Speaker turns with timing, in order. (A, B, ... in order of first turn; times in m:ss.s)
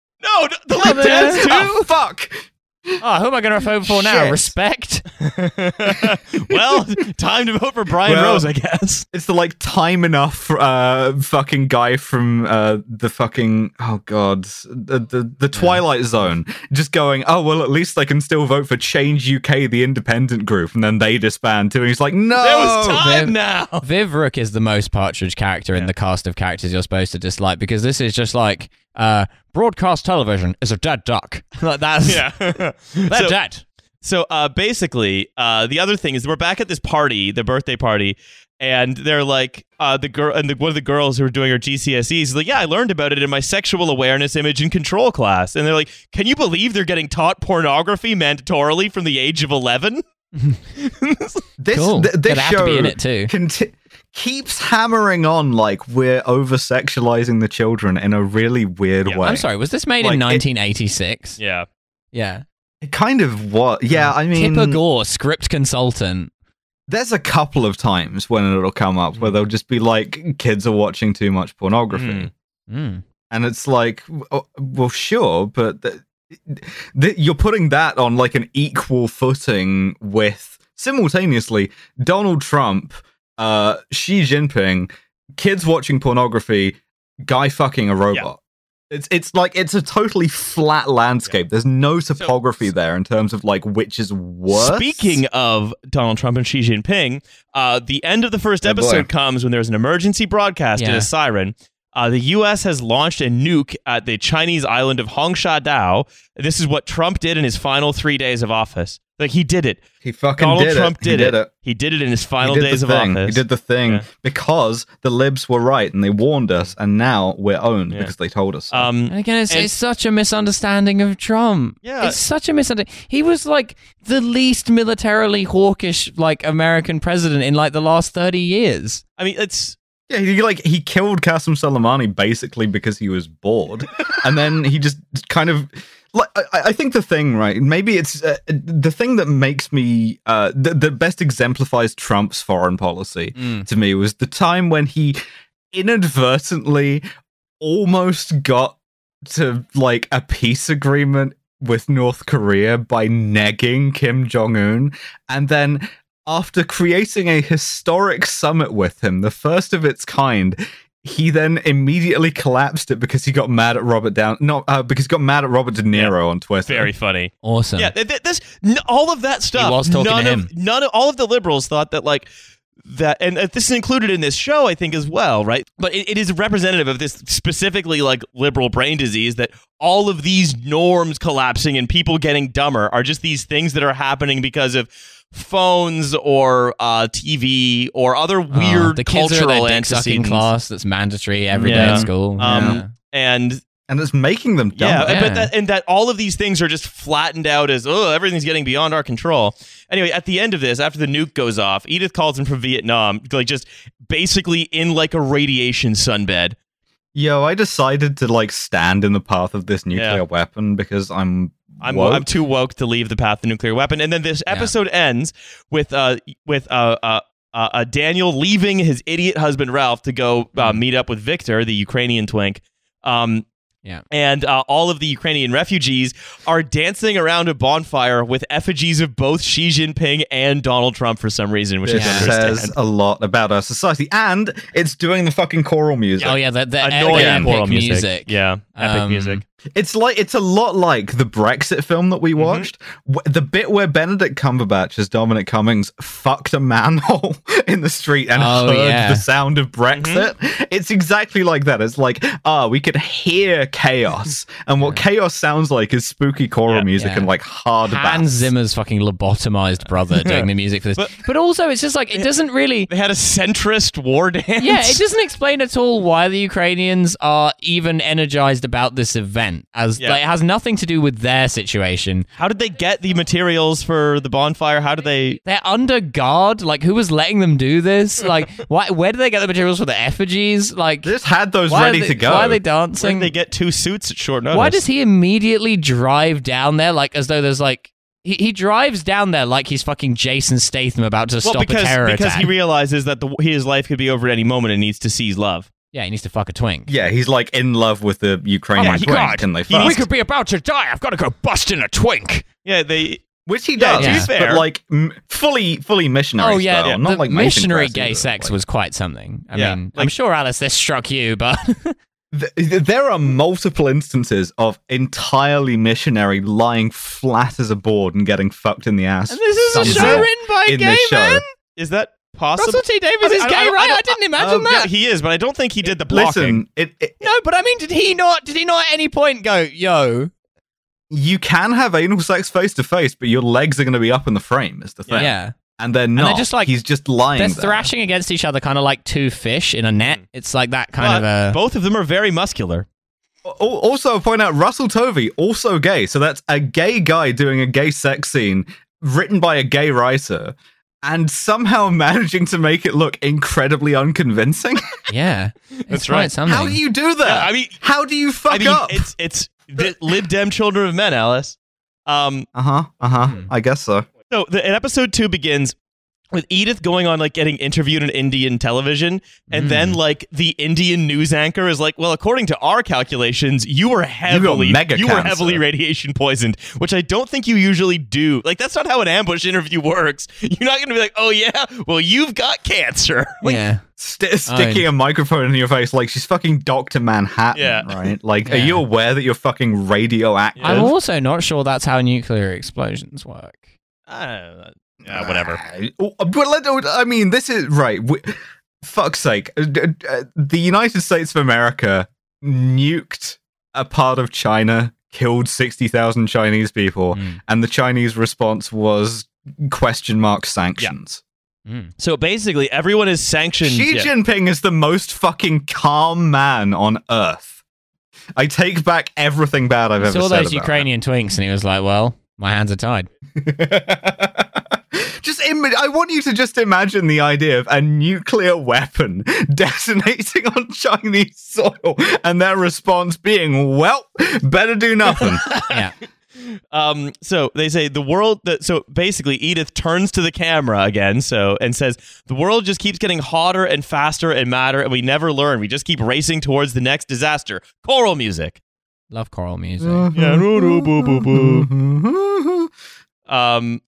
0:00.2-0:01.8 A
0:00.8-0:01.7 B
0:00.8-0:03.0 C
0:03.0-0:05.1 B
0:03.8-0:04.5 C
0:05.2-0:09.0 A
0:08.0-0:08.5 C
0:09.1-0:23.0 C
0:15.5-0:15.8 B
0:22.4-0:23.8 A
0:22.9-0:32.6 B
0:32.0-0:33.4 A
0:33.1-0:33.6 B
0:34.0-0:50.0 A
0:50.4-0:50.6 B
0:50.8-0:51.4 A
0:51.6-0:59.4 C
0:51.7-0:53.3 B
0:59.2-1:01.4 B
1:00.0-1:00.4 C
1:01.4-1:01.7 A
1:02.1-1:02.4 B
1:02.8-1:04.8 C
1:03.9-1:06.3 B
1:06.9-1:12.3 C
1:11.9-1:12.3 A
1:12.7-1:13.0 B
1:13.3-1:28.4 C
1:28.9-1:35.2 C
1:34.5-1:49.8 A
1:38.6-1:39.1 C
1:40.8-1:41.1 B
1:50.0-1:51.5 C
1:50.4-1:54.0 A
1:52.4-1:58.9 C
1:58.7-1:59.7 A
1:59.1-2:09.0 B
2:01.8-2:02.2 A
2:09.2-2:09.8 A
2:10.1-2:25.2 C
2:23.4-2:23.6 B
2:25.7-2:27.0 C
2:27.6-2:46.9 C
2:45.9-2:52.3 A
2:47.4-2:47.9 B
2:49.6-2:50.5 B
2:52.8-3:10.5 A
3:08.5-3:12.9 B
3:11.5-3:12.8 C
3:11.6-3:13.6 A
3:13.9-3:15.2 C
3:14.8-3:26.6 A
3:15.0-3:15.5 B
3:27.1-3:32.3 C
3:29.9-3:30.2 A
3:31.8-3:43.4 A
3:44.1-3:52.7 A
3:51.8-3:56.4 C
3:51.9-3:52.3 B
3:56.2-3:59.4 B
3:56.2-3:59.4 A
3:57.1-3:57.5 C
3:59.7-4:18.5 C
4:02.4-4:02.7 A
4:08.4-4:09.2 B
4:09.9-4:10.2 A
4:17.0-4:17.3 B
4:17.8-4:22.9 B
4:20.1-4:21.2 A
4:22.9-4:25.0 A
4:24.6-4:32.3 B
4:32.4-4:35.4 A
4:35.4-4:41.1 B
4:41.0-4:42.6 C
4:41.7-4:43.3 B
4:43.0-4:44.8 A
4:44.5-4:52.5 B
4:51.4-4:55.7 A
4:55.9-4:56.9 B
4:56.9-5:00.0 C
4:58.8-5:02.4 B
4:58.8-5:00.0 A
5:02.6-5:03.2 A
5:03.4-5:08.6 C
5:03.8-5:04.6 A
5:04.0-5:04.3 B
5:06.4-5:12.0 B
5:09.5-5:10.1 A
5:12.3-5:21.4 C
5:19.3-5:21.5 B
5:19.7-5:20.3 A
5:21.8-5:26.6 A
5:22.6-5:24.9 B
5:24.4-5:24.8 C
5:26.0-5:27.2 C
5:27.2-5:30.3 B
5:31.1-5:37.9 C
5:35.0-5:35.3 A
5:35.1-5:35.5 B
5:36.2-5:36.7 B
5:37.4-5:41.6 B
5:41.0-5:42.8 A
5:43.4-5:55.0 C
5:55.1-5:56.8 B
5:55.9-5:56.3 A
5:56.4-5:59.1 C
5:57.2-5:57.8 A
5:58.5-6:02.4 A
6:02.5-6:04.0 C
6:04.3-6:05.7 A
6:06.3-6:23.6 A
6:09.5-6:10.0 B
6:14.3-6:15.6 C
6:23.4-6:23.8 B
6:24.0-6:30.9 C
6:24.5-6:24.8 B
6:27.5-6:28.1 A
6:28.4-6:28.8 B
6:30.6-6:30.9 A
6:30.6-6:33.6 B
6:34.1-6:35.6 A
6:35.0-6:51.2 C
6:47.1-6:47.4 B
6:51.6-6:51.9 B
6:52.0-6:54.1 A
6:53.6-6:57.6 C
6:58.4-7:00.9 C
7:00.0-7:03.1 B
7:03.4-7:15.5 C
7:15.1-7:15.8 A
7:15.7-7:15.9 B
7:16.4-7:28.6 A
7:29.1-7:30.1 B
7:29.8-7:32.7 C
7:30.1-7:31.7 A
7:33.3-7:33.8 A